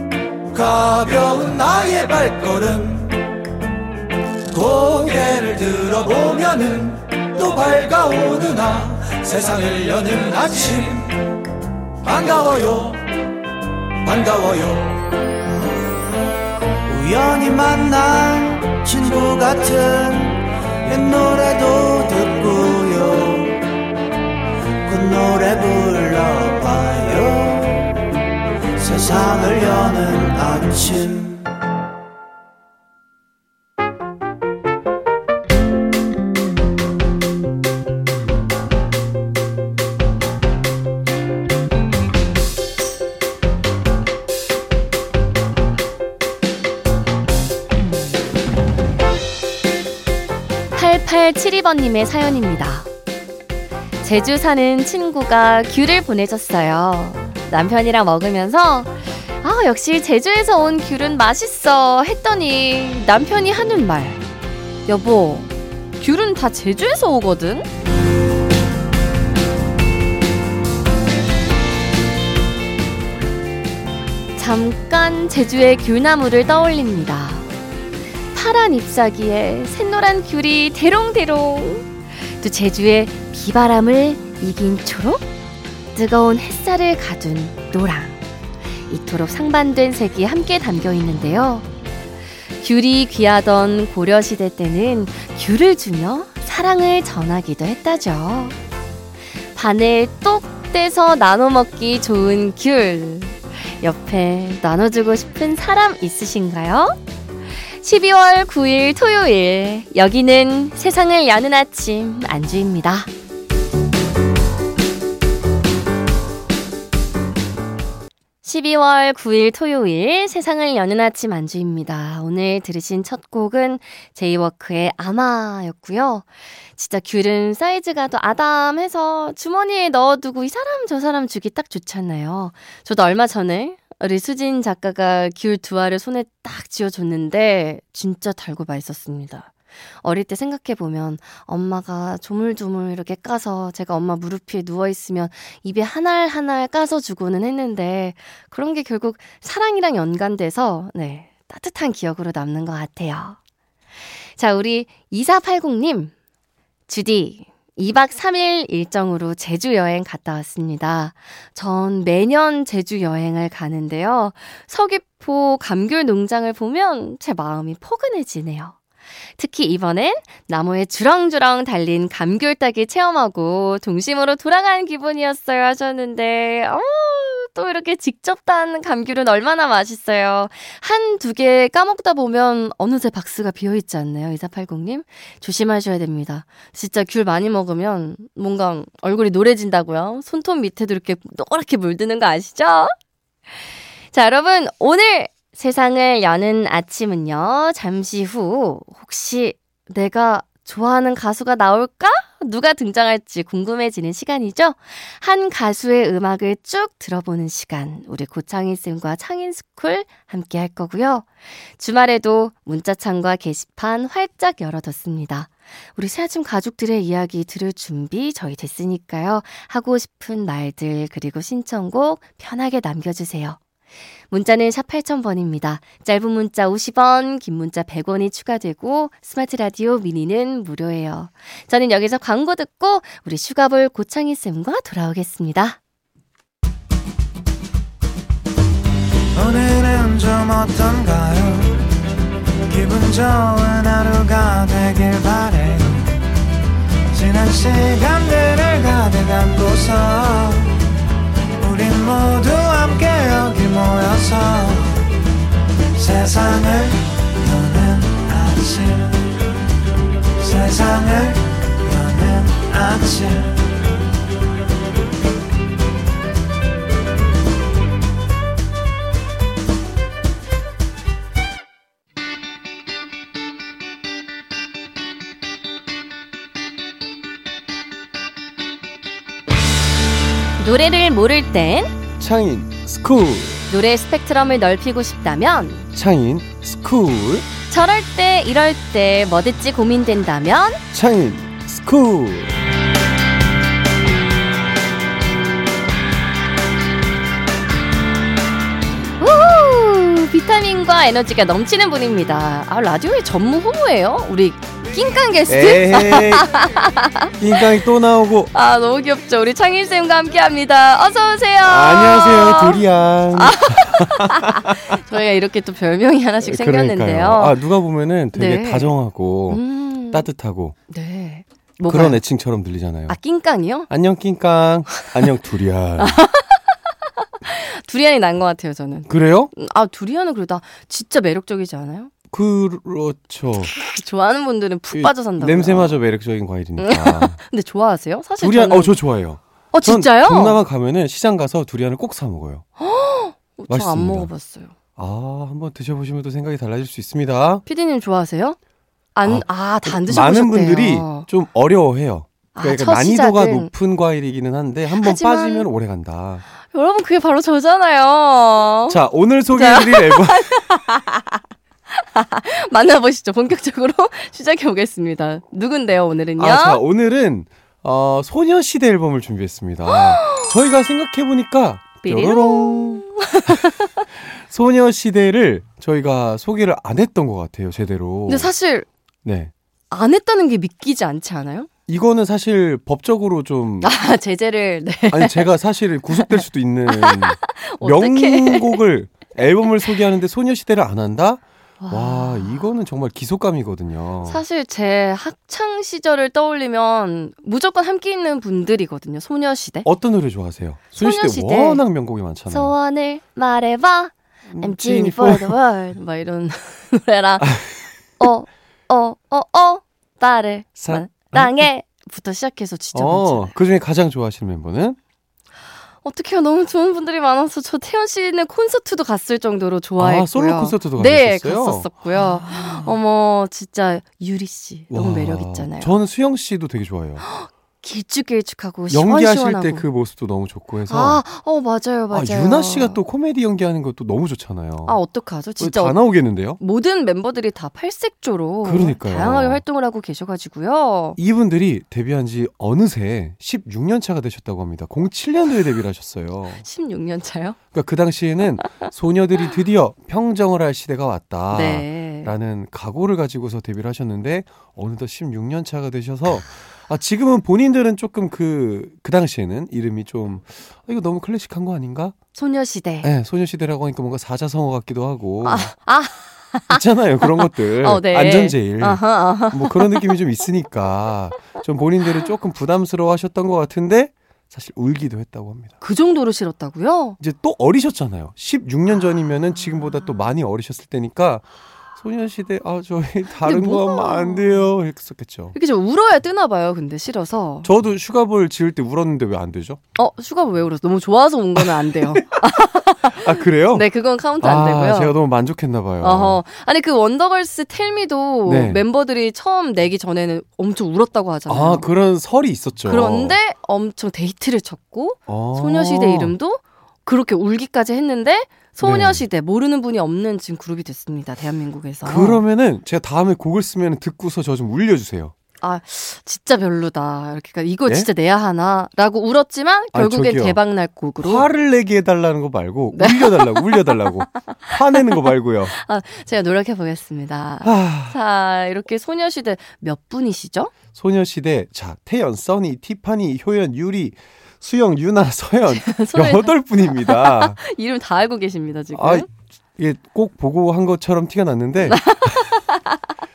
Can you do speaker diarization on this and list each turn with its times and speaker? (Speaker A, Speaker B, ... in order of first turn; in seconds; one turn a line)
Speaker A: 0.5-3.3
Speaker A: 4.5-11.2
Speaker A: 12.0-13.1
Speaker A: 14.0-15.0
Speaker A: 16.9-23.6
Speaker A: 24.8-28.0
Speaker A: 28.8-31.5
Speaker B: 50.7-52.9
Speaker B: 54.0-64.2
Speaker B: 64.9-67.7
Speaker B: 74.3-77.5
Speaker B: 78.3-85.2
Speaker B: 85.9-88.2
Speaker B: 88.9-91.7
Speaker B: 92.6-98.5
Speaker B: 99.5-107.0
Speaker B: 107.7-113.1
Speaker B: 118.4-153.4
Speaker B: 154.4-156.1
Speaker B: 156.9-168.8
Speaker B: 169.4-192.9
Speaker B: 194.1-223.6
Speaker B: 224.3-235.8
Speaker A: 239.3-241.8
Speaker A: 242.7-246.2
Speaker A: 247.1-250.8
Speaker A: 251.6-255.0
Speaker A: 255.9-259.3
Speaker A: 260.4-263.6
Speaker B: 280.6-282.0
Speaker C: 282.2-283.6
Speaker B: 283.7-285.9
Speaker C: 285.9-287.5
Speaker B: 287.7-290.8
Speaker C: 290.9-292.5
Speaker B: 299.2-307.7
Speaker C: 305.5-306.5
Speaker C: 307.4-308.5
Speaker B: 308.5-312.8
Speaker C: 311.6-315.0
Speaker B: 313.3-317.6
Speaker C: 316.4-320.8
Speaker B: 318.3-318.9
Speaker B: 319.5-320.2
Speaker B: 320.9-322.2
Speaker C: 321.9-323.2
Speaker B: 323.1-323.9
Speaker C: 323.9-326.2
Speaker B: 326.0-326.7
Speaker B: 327.4-332.1
Speaker C: 329.1-329.5
Speaker C: 332.3-333.7
Speaker B: 333.7-336.0
Speaker C: 334.9-337.4
Speaker B: 336.8-339.0
Speaker C: 338.4-342.6
Speaker B: 339.7-340.6
Speaker B: 342.8-344.7
Speaker C: 343.7-344.3
Speaker C: 345.0-347.6
Speaker B: 347.6-348.6
Speaker B: 349.1-351.3
Speaker C: 349.2-356.4
Speaker B: 352.5-353.7
Speaker B: 354.9-355.7
Speaker B: 356.6-359.0
Speaker C: 358.9-360.7
Speaker B: 359.5-361.4
Speaker B: 361.9-366.8
Speaker C: 366.4-378.5
Speaker B: 369.9-370.5
Speaker B: 372.0-374.0
Speaker B: 378.3-378.9
Speaker C: 379.2-379.5
Speaker B: 379.9-381.7
Speaker C: 381.9-383.9
Speaker B: 383.8-385.5
Speaker C: 385.1-394.4
Speaker B: 386.1-388.8
Speaker B: 391.8-392.6
Speaker B: 394.2-399.9
Speaker C: 399.8-402.7
Speaker B: 400.9-401.8
Speaker B: 402.5-407.6
Speaker C: 404.5-405.6
Speaker C: 407.4-407.7
Speaker B: 408.2-413.5
Speaker C: 410.8-411.7
Speaker C: 412.9-415.0
Speaker B: 416.0-425.9
Speaker C: 420.0-422.9
Speaker C: 424.9-427.2
Speaker B: 427.2-429.9
Speaker C: 428.9-431.2
Speaker B: 430.9-433.0
Speaker C: 432.1-435.0
Speaker B: 434.9-436.0
Speaker C: 435.6-436.6
Speaker B: 436.6-441.2
Speaker C: 438.6-439.6
Speaker C: 441.2-446.6
Speaker B: 446.6-447.6
Speaker C: 447.7-462.1
Speaker B: 451.5-452.3
Speaker B: 462.3-463.1
Speaker C: 463.0-465.7
Speaker B: 465.4-470.2
Speaker C: 466.7-475.7
Speaker B: 475.8-477.2
Speaker C: 477.2-485.5
Speaker B: 483.4-484.7
Speaker B: 485.5-487.7
Speaker C: 487.6-489.8
Speaker B: 489.9-495.1
Speaker C: 491.6-492.5
Speaker C: 493.0-493.9
Speaker C: 494.4-496.4
Speaker B: 496.0-501.9
Speaker C: 498.4-498.8
Speaker C: 501.5-503.4
Speaker B: 502.9-512.4
Speaker C: 505.3-506.3
Speaker C: 508.8-509.2
Speaker C: 512.0-515.3
Speaker B: 515.6-521.5
Speaker C: 519.9-520.6
Speaker C: 521.2-525.7
Speaker B: 522.9-524.5
Speaker B: 525.7-530.7
Speaker C: 527.6-528.2
Speaker C: 530.9-537.6
Speaker B: 535.7-539.3
Speaker C: 538.9-542.5
Speaker B: 541.9-543.0